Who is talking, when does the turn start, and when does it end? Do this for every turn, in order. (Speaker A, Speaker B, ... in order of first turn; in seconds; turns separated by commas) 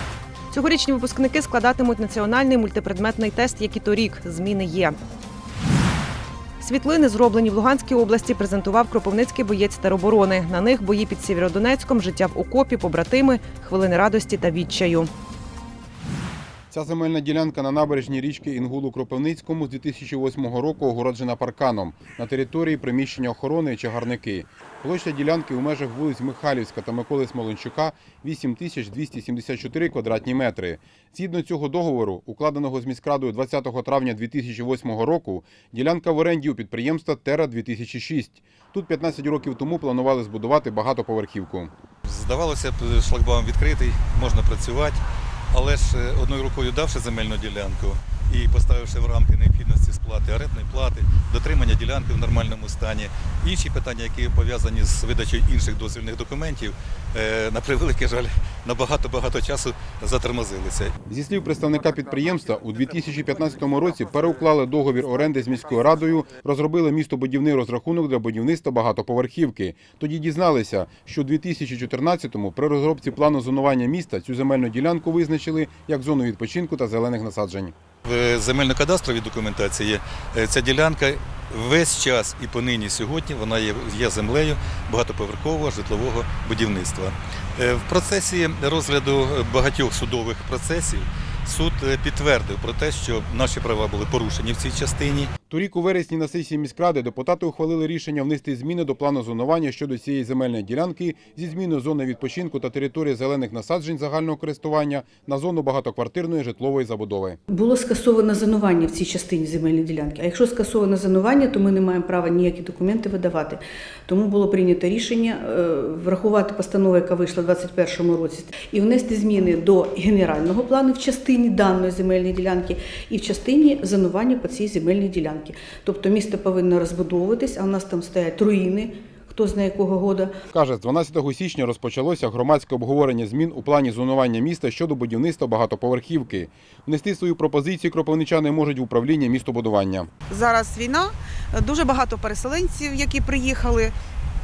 Speaker A: 0.5-5.0, Speaker A: 6.6-15.1, Speaker B: 16.7-41.7, Speaker C: 42.1-45.0, Speaker C: 45.5-60.9, Speaker B: 61.1-77.7, Speaker C: 78.0-95.3, Speaker B: 95.5-107.4, Speaker D: 107.5-130.3, Speaker B: 130.5-140.1, Speaker E: 140.3-143.9